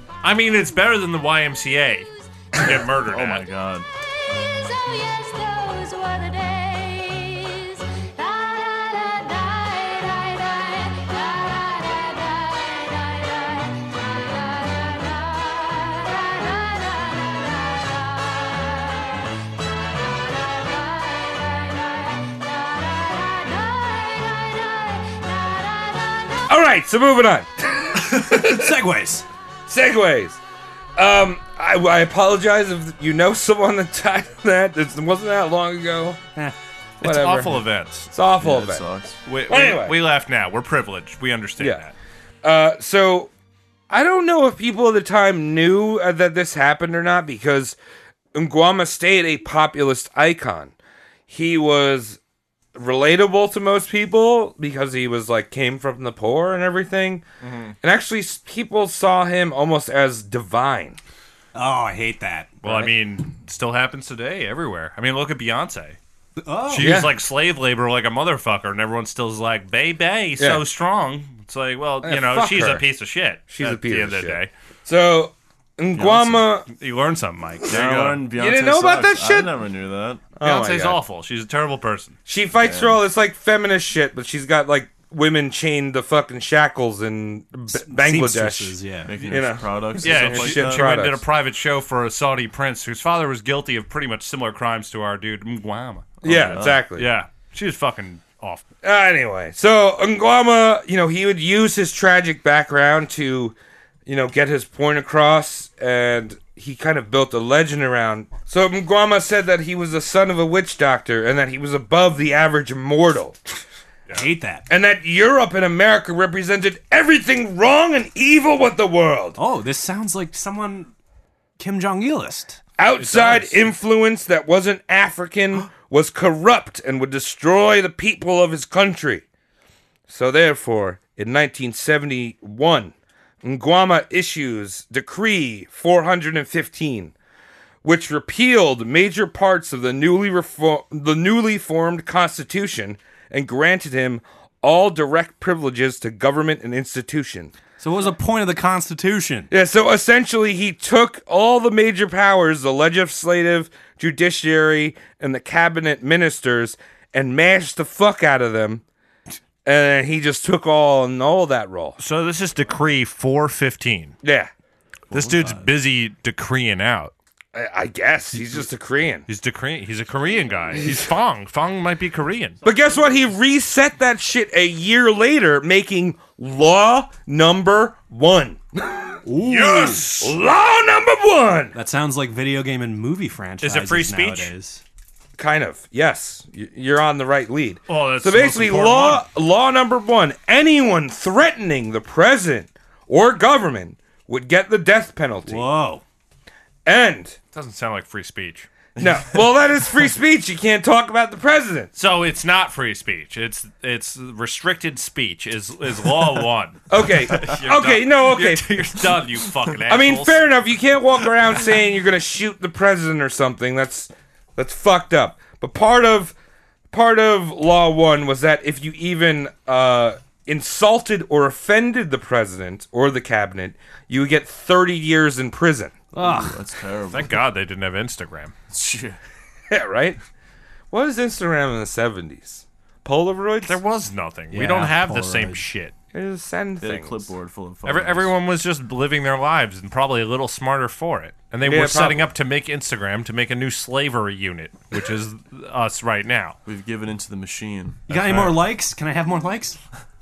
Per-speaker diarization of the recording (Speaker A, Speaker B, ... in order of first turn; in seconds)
Speaker A: 0.2-3.5, 37.0-38.1, 39.2-41.9, 57.4-57.7, 62.6-66.0, 66.7-74.5, 76.7-78.2, 80.4-82.2, 90.0-98.6, 123.0-123.6, 162.0-164.1, 165.1-167.1, 169.3-172.6, 179.4-180.3, 183.6-184.5, 187.9-189.2, 197.5-198.7, 202.0-210.4, 227.1-228.5, 233.7-235.9, 237.8-246.6
Speaker B: 3.0-3.9, 38.4-39.2, 76.0-76.4, 77.7-80.2, 82.6-83.0, 89.1-90.9, 96.2-96.8, 165.1-165.7, 226.2-227.4, 228.7-229.2, 236.8-238.3, 246.7-248.5
Speaker C: 4.0-26.5
Speaker D: 26.5-28.7, 29.7-30.4, 31.0-36.2, 37.0-38.8, 39.5-40.0, 42.4-43.3, 43.9-47.8, 48.3-50.7, 51.3-52.2, 52.8-57.2, 57.8-61.0, 66.8-67.1, 70.4-70.6, 72.0-72.9, 73.5-76.7, 78.3-79.5, 80.4-81.0, 82.3-91.2, 96.2-97.1, 98.8-103.5, 104.1-113.4, 114.7-119.4, 122.8-129.2, 130.1-132.9, 133.4-137.1, 137.8-147.5, 149.5-158.8, 159.7-162.0, 164.2-164.5, 167.6-169.3, 172.7-179.1, 180.2-181.8, 185.4-195.7, 196.9-197.4, 199.0-201.9, 206.9-208.7, 209.9-216.3, 216.9-226.0, 229.7-230.2, 230.9-233.8, 236.1-237.3, 241.6-242.3
Speaker E: 28.1-29.3, 61.5-62.6, 66.4-67.0, 87.7-89.1, 114.1-114.7, 119.4-120.9, 121.6-122.6, 147.8-149.5, 179.3-180.0, 181.7-184.8, 195.5-196.0, 226.1-226.6, 234.5-235.7, 248.1-249.8